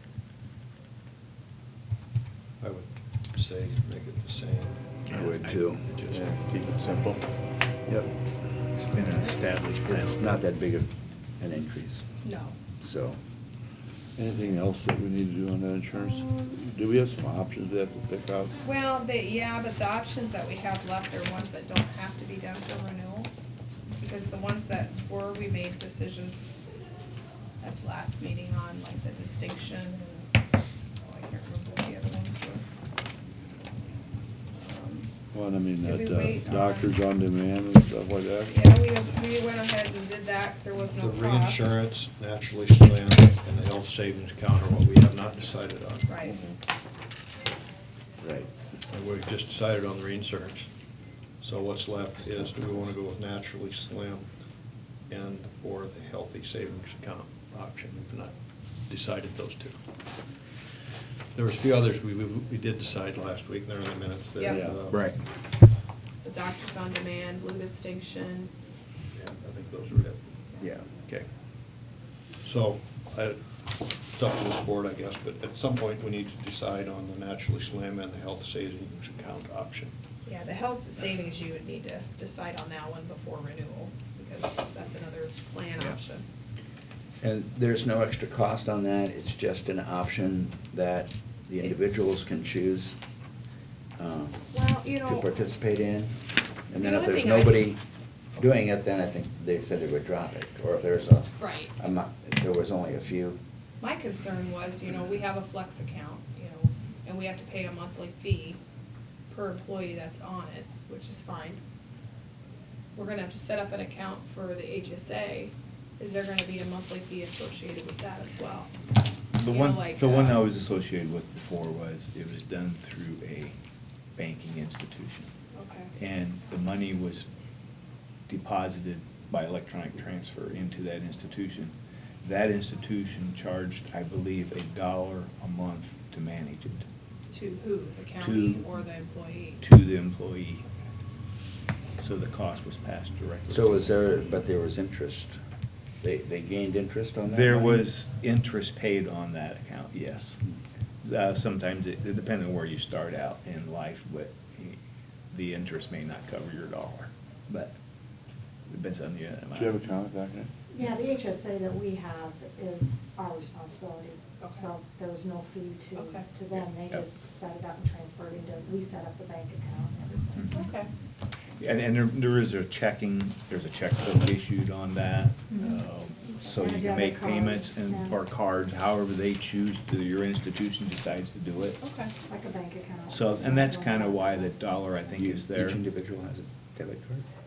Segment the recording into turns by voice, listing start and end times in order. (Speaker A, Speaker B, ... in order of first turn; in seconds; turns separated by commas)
Speaker A: 2.6-5.2, Speaker B: 5.1-7.2, Speaker C: 5.1-5.8, Speaker A: 5.8-6.3, Speaker B: 8.7-10.2, Speaker C: 9.9-12.1, Speaker D: 12.2-12.6, Speaker C: 12.8-13.2, Speaker C: 14.2-18.5, Speaker E: 14.2-18.5, Speaker D: 18.6-23.3, Speaker D: 24.0-26.6, Speaker D: 27.6-30.4, Speaker D: 31.0-32.7, Speaker D: 34.5-35.1, Speaker E: 35.3-38.5, Speaker C: 35.6-36.0, Speaker D: 35.8-37.0, Speaker D: 38.5-41.8, Speaker A: 40.9-46.1, Speaker D: 46.1-46.4, Speaker C: 48.2-48.5, Speaker A: 48.9-50.7, Speaker A: 51.4-54.3, Speaker A: 55.1-58.3, Speaker A: 58.9-59.8, Speaker A: 61.4-65.0, Speaker D: 64.4-64.7, Speaker B: 64.9-65.2, Speaker D: 66.2-68.5, Speaker A: 69.1-70.5, Speaker B: 70.6-70.9, Speaker A: 72.4-80.0, Speaker D: 80.2-86.2, Speaker C: 87.2-93.0, Speaker C: 94.0-94.5, Speaker D: 94.5-95.3, Speaker C: 95.0-96.2, Speaker C: 96.7-97.8, Speaker D: 96.7-97.8, Speaker C: 98.4-103.4, Speaker D: 101.4-101.7, Speaker D: 103.8-108.6, Speaker D: 109.3-111.6, Speaker D: 113.0-118.7, Speaker B: 119.3-123.6, Speaker D: 119.5-120.5, Speaker B: 124.2-125.3, Speaker D: 125.5-125.9, Speaker B: 126.0-127.3, Speaker B: 128.3-136.9, Speaker D: 137.3-139.6, Speaker B: 138.2-138.7, Speaker B: 139.6-140.6, Speaker B: 142.0-144.0, Speaker C: 143.5-145.4, Speaker C: 146.0-147.9, Speaker B: 147.2-150.4, Speaker B: 151.0-154.8, Speaker B: 155.3-157.8, Speaker B: 158.7-159.8, Speaker E: 159.6-160.5, Speaker F: 160.7-170.7, Speaker D: 166.0-166.2, Speaker B: 170.4-170.7, Speaker D: 170.5-170.9, Speaker B: 171.6-181.8, Speaker F: 175.5-175.8, Speaker F: 176.4-178.2, Speaker D: 181.8-182.1, Speaker F: 182.2-185.2, Speaker B: 183.1-185.8, Speaker C: 185.2-187.2